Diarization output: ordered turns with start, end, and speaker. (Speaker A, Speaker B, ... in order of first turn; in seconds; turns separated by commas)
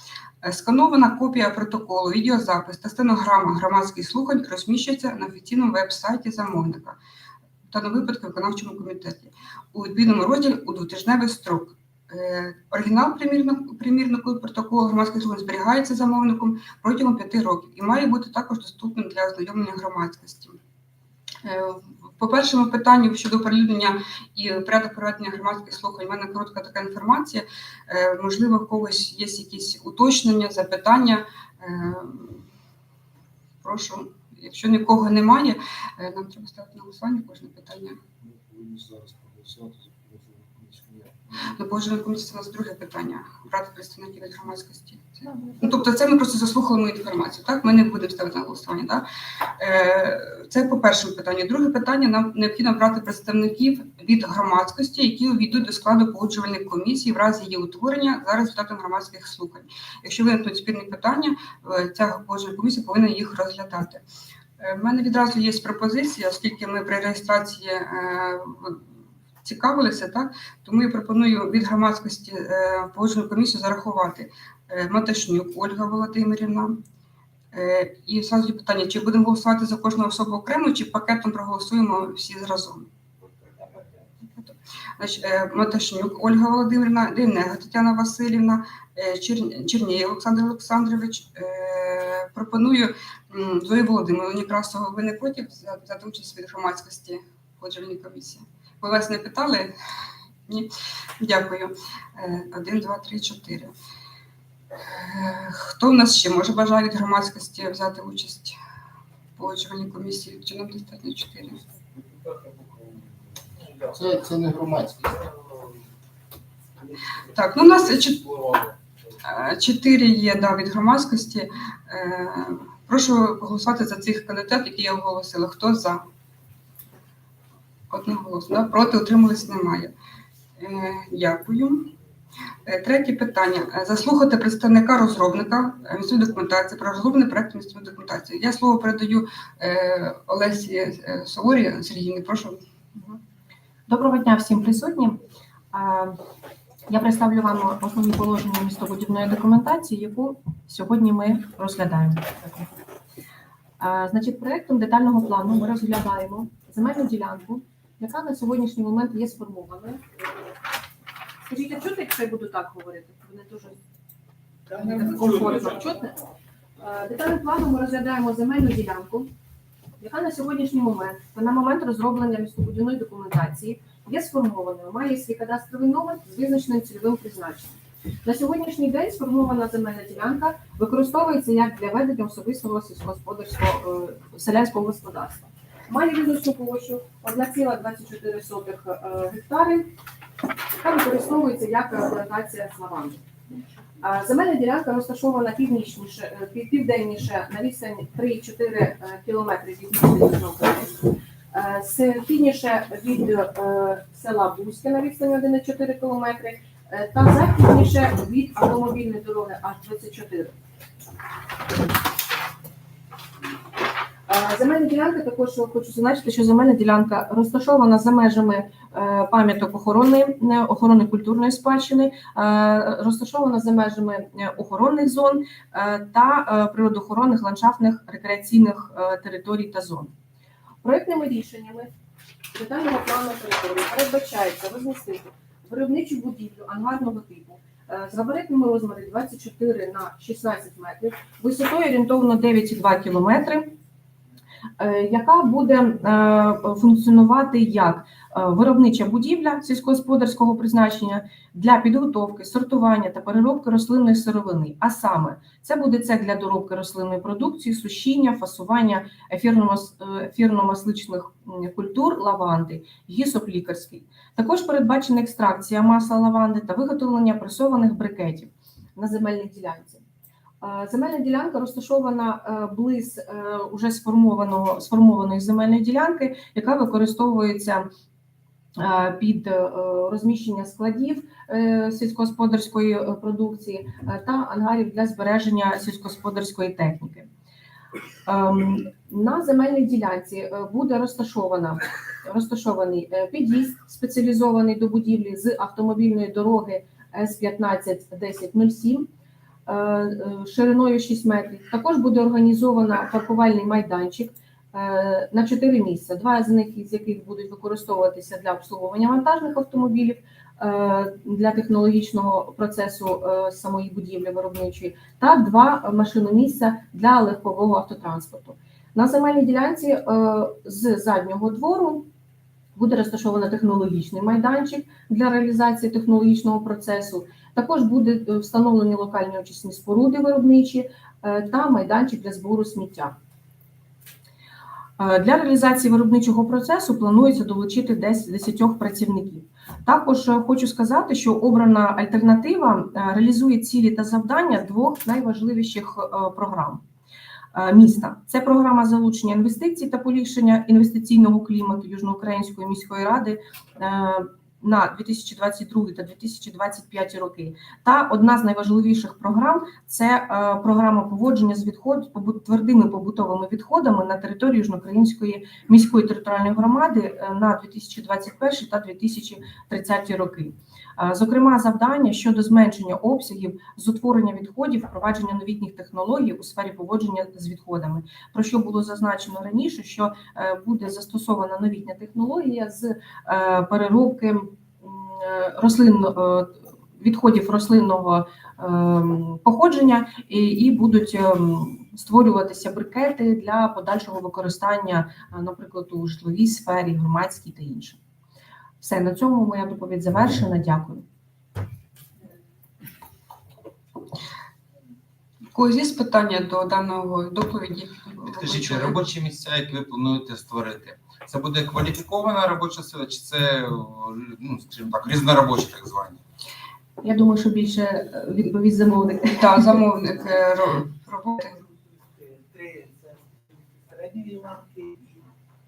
Speaker A: 0.4-7.0, Speaker A: 7.7-20.6, Speaker A: 21.4-32.4, Speaker A: 33.6-38.0, Speaker B: 38.2-41.4, Speaker A: 41.4-49.0, Speaker A: 49.6-64.0, Speaker A: 64.6-68.8, Speaker A: 69.4-76.8, Speaker A: 77.5-82.9, Speaker C: 83.4-83.9, Speaker A: 84.2-99.7, Speaker A: 100.5-103.7, Speaker A: 104.9-108.5, Speaker A: 109.4-111.6, Speaker C: 111.9-114.3, Speaker B: 113.9-115.1, Speaker C: 115.0-115.8, Speaker C: 116.8-118.8, Speaker A: 117.3-118.2, Speaker A: 119.2-126.0, Speaker A: 127.9-129.9, Speaker A: 130.6-131.9, Speaker A: 132.6-142.6, Speaker D: 142.9-143.2, Speaker D: 143.9-145.2, Speaker D: 145.7-146.2, Speaker D: 146.9-152.7, Speaker D: 153.8-160.0, Speaker D: 161.5-163.8, Speaker D: 164.8-166.1, Speaker C: 165.0-165.8, Speaker D: 166.8-169.3, Speaker D: 170.0-189.9, Speaker D: 190.7-193.2, Speaker D: 194.0-210.6, Speaker D: 214.3-230.1, Speaker D: 230.8-231.9, Speaker D: 232.5-243.8, Speaker D: 244.8-270.0, Speaker D: 270.6-277.9, Speaker D: 278.8-287.3, Speaker D: 288.2-299.1, Speaker D: 299.7-322.1, Speaker D: 322.8-333.1, Speaker D: 335.0-346.8, Speaker D: 347.5-398.0, Speaker D: 398.8-401.0, Speaker A: 405.5-409.1, Speaker C: 408.2-416.2, Speaker D: 417.0-419.8, Speaker A: 419.4-421.6, Speaker E: 422.1-425.2